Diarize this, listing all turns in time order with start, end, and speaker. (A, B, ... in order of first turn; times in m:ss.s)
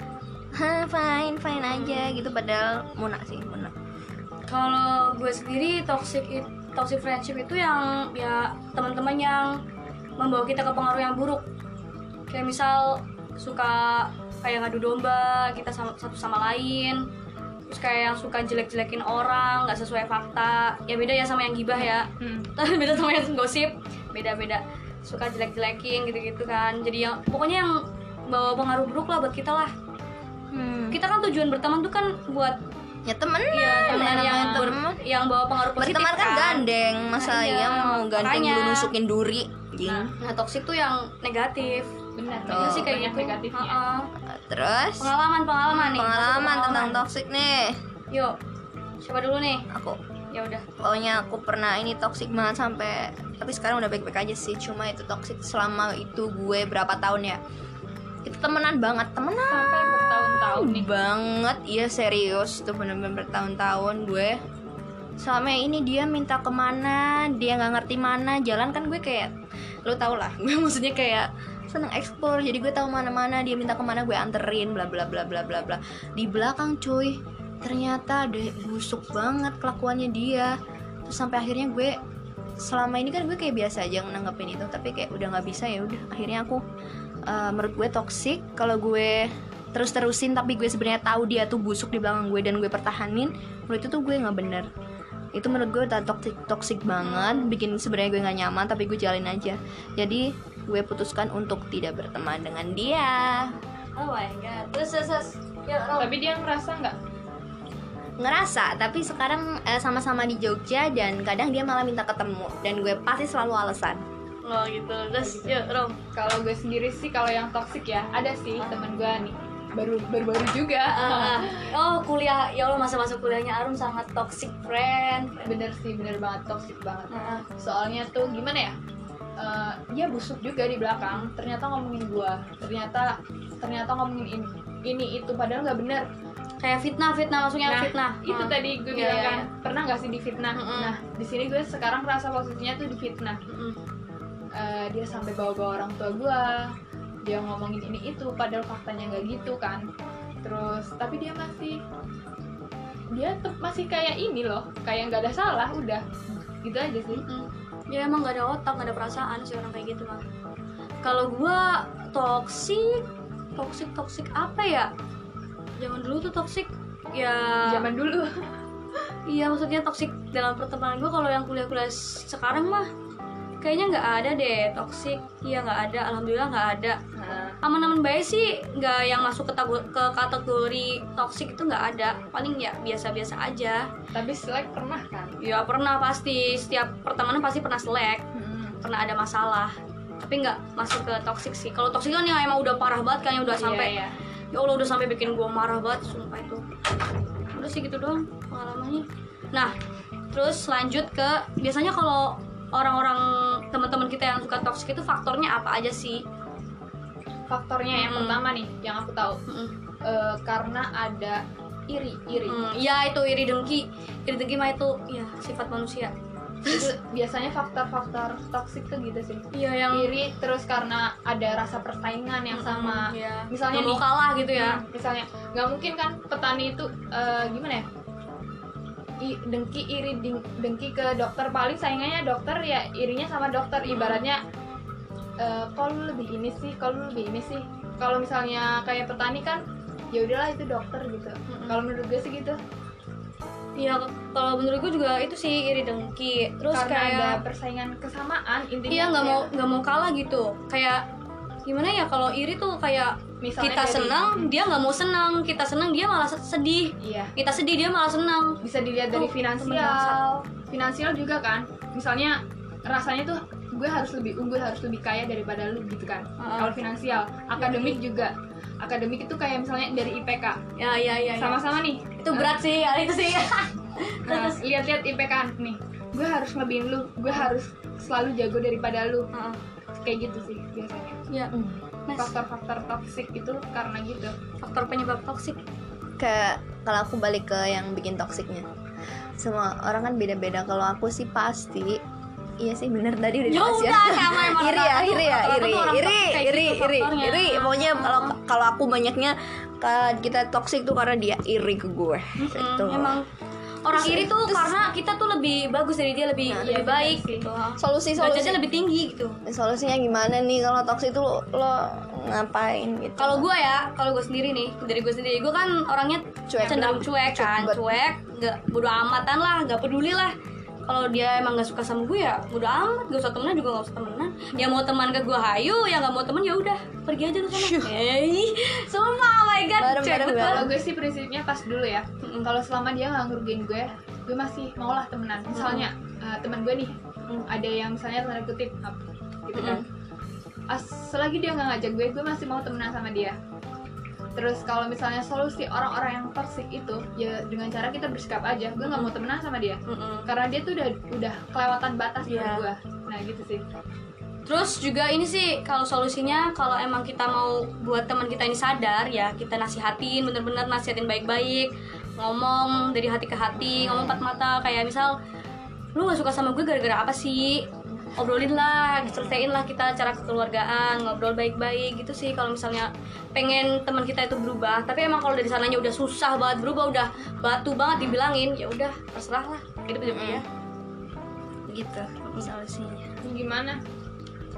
0:00.5-0:03.7 A
0:01.7-0:02.2 B
0:04.5-0:09.6 B
0:10.2-0:11.4 B
0:12.3-0:17.1 B
0:17.7-0:29.7 B
0:22.2-0:22.5 C
0:30.5-0:31.0 A
0:30.9-0:32.6 B
0:33.0-0:35.0 A
0:33.5-0:38.9 B
0:33.8-0:34.7 C
0:35.8-0:40.1 A
0:39.8-0:41.9 B
0:42.2-0:43.8 C
0:42.4-0:42.9 A
0:42.5-0:44.1 B
0:44.2-0:45.1 A
0:45.0-0:47.0 B
0:45.7-0:47.8 A
0:49.0-0:49.7 B
0:49.7-0:50.0 A
0:50.3-0:50.6 B
0:50.8-0:57.4 A
0:58.2-1:04.4 A
0:59.5-1:01.0 C
1:05.2-1:09.3 A
1:09.8-1:20.5 A
1:21.0-1:22.0 A
1:22.6-1:26.6 A
1:27.3-1:34.7 A
1:35.3-1:43.6 A
1:37.0-1:37.5 B
1:44.0-1:46.1 B
1:46.0-1:47.0 C
1:48.2-1:54.0 A
1:54.4-1:56.0 B
1:55.2-1:55.5 C
1:56.1-2:01.7 C
2:00.9-2:05.5 B
2:05.4-2:08.7 C
2:07.1-2:07.4 B
2:09.4-2:16.1 C
2:16.6-2:19.5 B
2:17.6-2:23.4 C
2:20.5-2:21.0 B
2:23.5-2:23.8 B
2:24.5-2:26.7 C
2:27.2-2:29.8 C
2:30.4-2:31.8 C
2:33.1-2:36.0 C
2:36.6-2:37.2 C
2:37.1-2:40.2 B
2:41.0-2:44.9 B
2:45.8-2:47.8 B
2:47.6-2:48.5 C
2:49.3-2:52.9 B
2:53.6-2:57.0 B
2:57.2-2:57.6 C
2:57.6-3:03.9 B
3:04.1-3:05.4 C
3:05.4-3:08.2 B
3:08.3-3:08.8 C
3:08.8-3:13.9 B
3:13.5-3:14.1 C
3:14.5-3:16.7 B
3:17.5-3:19.7 B
3:20.3-3:26.2 B
3:27.5-3:29.4 C
3:27.9-3:28.4 B
3:29.5-3:29.7 B
3:30.0-3:32.8 C
3:32.4-3:36.1 B
3:36.6-3:36.9 B
3:36.7-3:47.8 C
3:39.5-3:40.1 B
3:42.5-3:44.8 B
3:49.2-3:54.4 C
3:53.9-3:54.2 B
3:55.4-4:02.6 C
4:01.5-4:01.8 B
4:03.8-4:07.4 B
4:06.7-4:09.5 C
4:08.9-4:11.0 B
4:11.7-4:18.6 B
4:13.4-4:14.5 C
4:17.0-4:17.3 C
4:18.6-4:30.6 C
4:19.1-4:20.2 B
4:26.4-4:26.7 B
4:27.6-4:28.0 B
4:30.8-4:31.6 B
4:31.4-4:32.6 C
4:32.2-4:34.6 B
4:34.3-4:39.3 C
4:39.3-4:39.6 B
4:40.0-4:41.2 C
4:41.3-4:41.5 B
4:42.1-4:42.3 B
4:42.2-4:44.3 C
4:44.6-4:45.6 B
4:46.2-4:48.6 A
4:49.4-4:52.0 A
4:52.6-5:03.2 A
4:53.4-4:58.4 B
5:02.4-5:03.3 B
5:03.8-5:09.4 B
5:03.9-5:04.7 A
5:06.5-5:06.8 A
5:06.6-5:07.5 C
5:07.8-5:08.6 A
5:09.4-5:13.5 A
5:13.2-5:20.3 B
5:16.5-5:17.9 A
5:16.5-5:17.0 C
5:20.9-5:30.7 B
5:27.5-5:27.9 A
5:29.8-5:30.7 A
5:30.3-5:39.8 C
5:32.2-5:32.5 B
5:35.5-5:35.9 B
5:39.5-5:39.8 B
5:40.7-5:43.4 C
5:44.4-5:53.6 C
5:48.8-5:49.1 B
5:49.9-5:50.3 B
5:52.2-5:52.6 B
5:54.5-6:05.2 B
6:03.6-6:04.2 A
6:05.9-6:20.4 B
6:09.0-6:09.4 A
6:20.0-6:20.4 A
6:21.7-6:23.1 A
6:23.2-6:23.8 C